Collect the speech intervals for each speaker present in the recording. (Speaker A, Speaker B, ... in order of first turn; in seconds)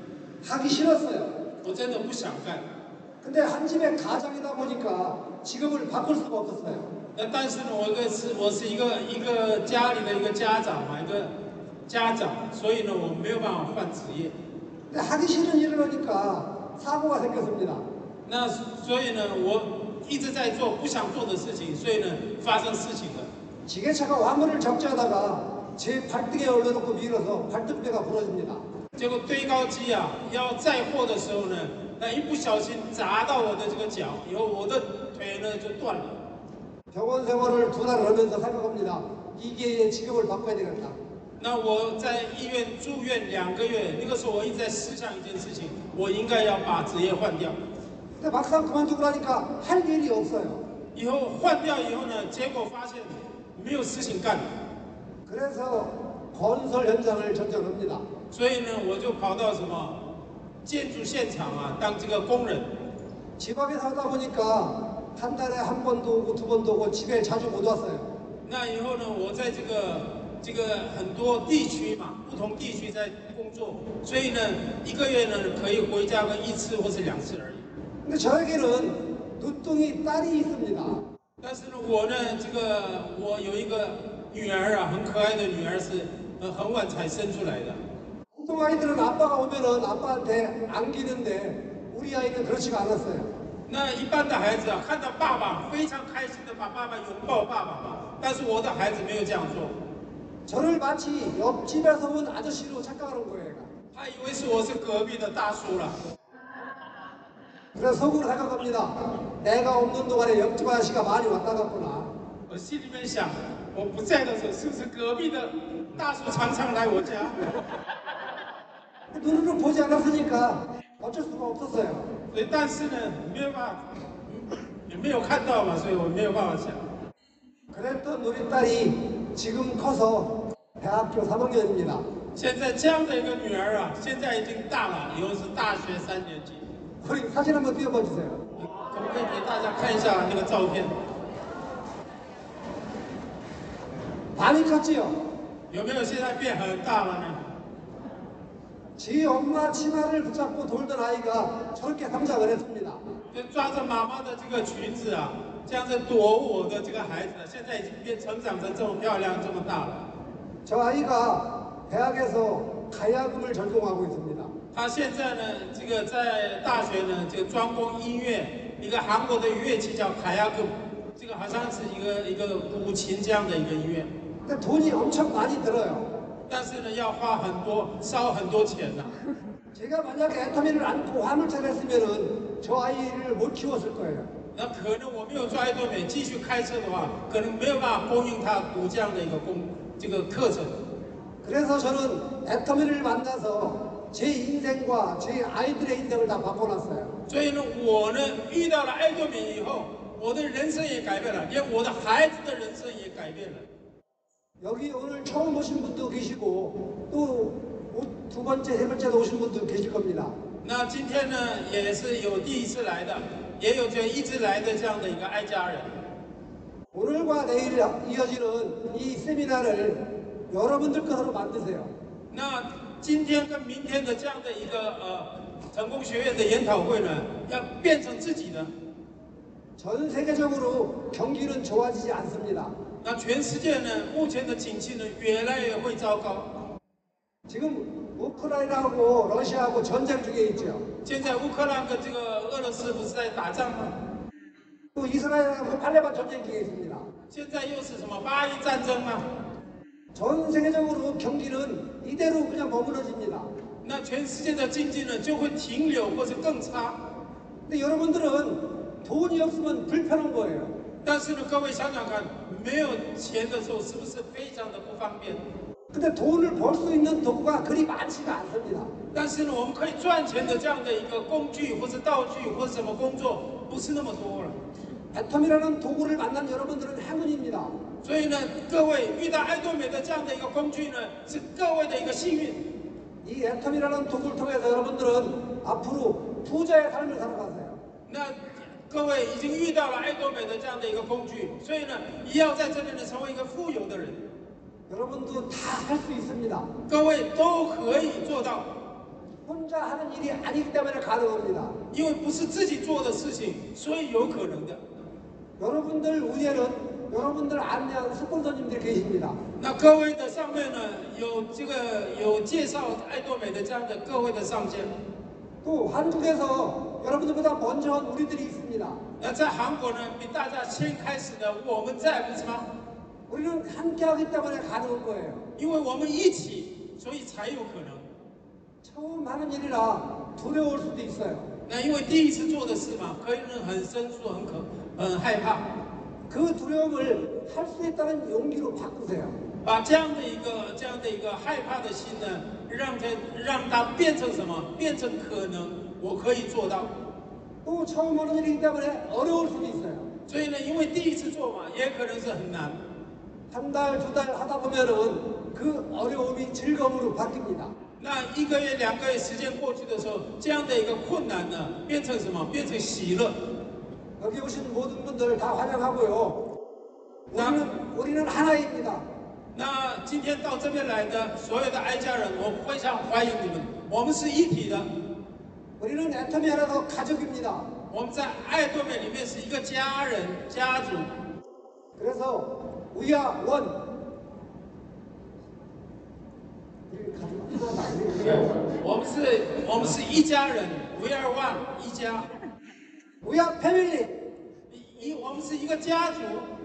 Speaker A: 0.4-1.3, 3.2-6.9, 14.9-17.8, 23.7-28.6, 36.9-41.0, 48.2-50.6, 55.3-58.0, 63.4-68.1, 78.0-81.0, 88.4-93.3, 100.5-103.7, 107.8-112.1, 119.1-122.1, 127.7-132.0, 137.0-138.4, 144.4-145.2, 149.0-153.0, 160.7-164.5, 174.5-176.1, 179.8-184.3, 191.4-197.2, 204.6-210.3, 216.9-221.9, 229.8-232.7, 237.5-240.8, 244.9-247.1, 250.1-253.5, 257.7-260.7, 265.9-268.9, 275.1-277.7, 283.2-287.8, 294.9-296.7, 299.4-301.8, 305.6-309.4, 315.6-319.0, 323.3-325.5, 328.8-331.5, 336.3-339.4, 347.6-350.1, 353.5-357.7, 364.2-366.4, 367.3-369.1, 375.8-377.7, 382.0-383.8, 386.9-388.6, 393.2-394.1
Speaker B: 1.6-2.7, 7.2-11.3, 11.9-14.3, 18.3-23.3, 29.0-36.2, 41.4-47.6, 50.9-54.5, 58.3-60.0, 60.6-62.7, 68.5-77.7, 81.4-87.8, 93.7-99.8, 103.9-106.0, 112.5-117.5, 122.3-126.8, 132.3-136.6, 138.6-140.9, 145.7-147.4, 153.3-160.1, 164.7-174.1, 176.5-179.1, 184.5-190.8, 197.3-203.7, 210.6-215.9, 222.3-228.7, 233.0-236.5, 241.0-243.9, 247.3-249.3, 253.8-257.0, 261.0-265.4, 269.1-274.6, 278.0-282.7, 288.1-294.2, 296.9-298.7, 301.9-304.8, 309.6-314.9, 319.2-322.7, 325.6-328.1, 331.7-335.7, 339.6-346.9, 350.3-352.8, 358.0-363.4, 367.4-367.6, 369.5-374.9, 377.9-381.1, 388.6-392.3, 394.7-396.5